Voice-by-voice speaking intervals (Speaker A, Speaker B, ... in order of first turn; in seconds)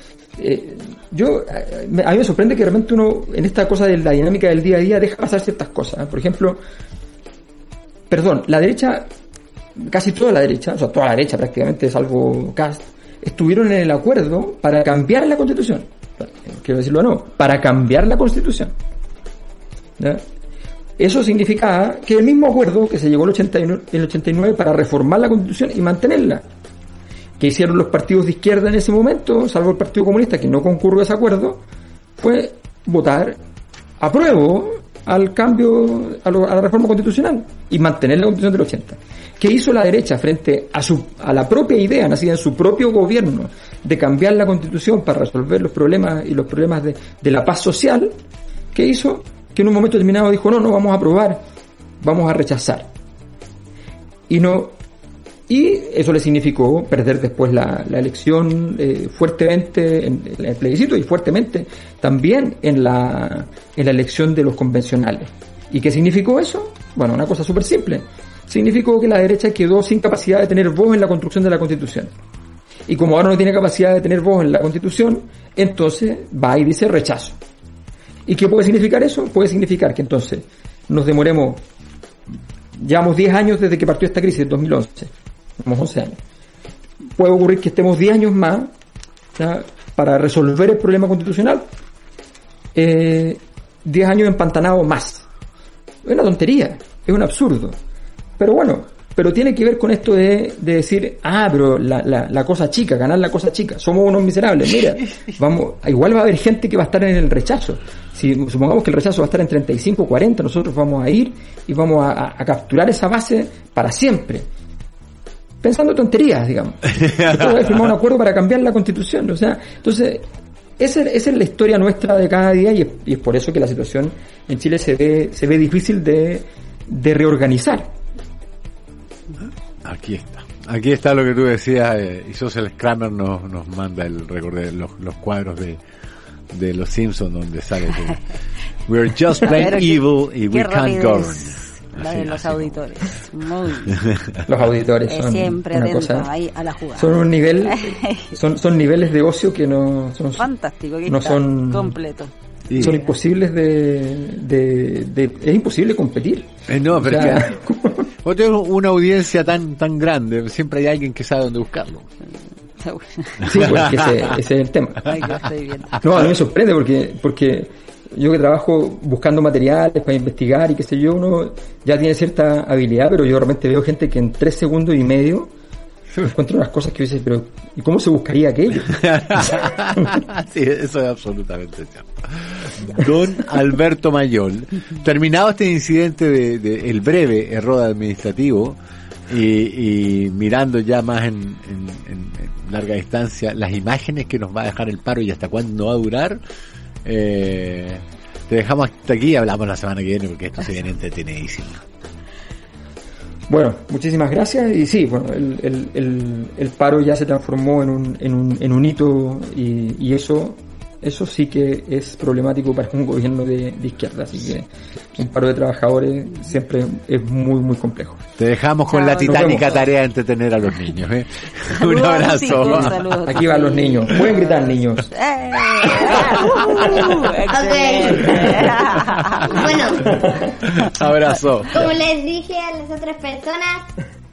Speaker A: 0.4-6.6, 8.1-9.1, 9.8-18.7, 21.0-26.4, 27.4-31.6, 32.2-33.4, 34.0-48.1, 48.7-51.4, 52.0-52.9, 54.3-54.8, 55.5-72.1, 72.9-77.4, 78.3-81.6, 82.8-86.2, 87.2-88.7, 89.4-91.7, 92.8-95.3, 96.0-97.8, 98.4-114.5, 115.6-120.3, 120.8-127.9, 144.5-146.3, 146.9-150.5, 151.1-152.0, 152.8-158.1, 163.4-165.2, 166.0-175.5, 176.1-179.4, 203.5-218.2, 219.2-219.7, 222.7-225.1, 230.1-230.5
Speaker B: 129.8-135.8, 136.5-138.3, 138.9-142.8, 152.7-153.0, 156.7-157.5, 158.2-162.1, 163.4-164.2, 178.9-188.8, 189.3-196.4, 197.1-201.8, 218.4-223.0, 225.9-227.2, 228.5-229.6, 230.6-231.9
Speaker C: 139.5-144.0, 145.1-148.3, 150.4-153.1, 162.8-163.4, 165.1-166.0, 218.9-219.8, 221.8-229.8
Speaker D: 227.5-228.4, 229.5-230.2, 231.7-233.9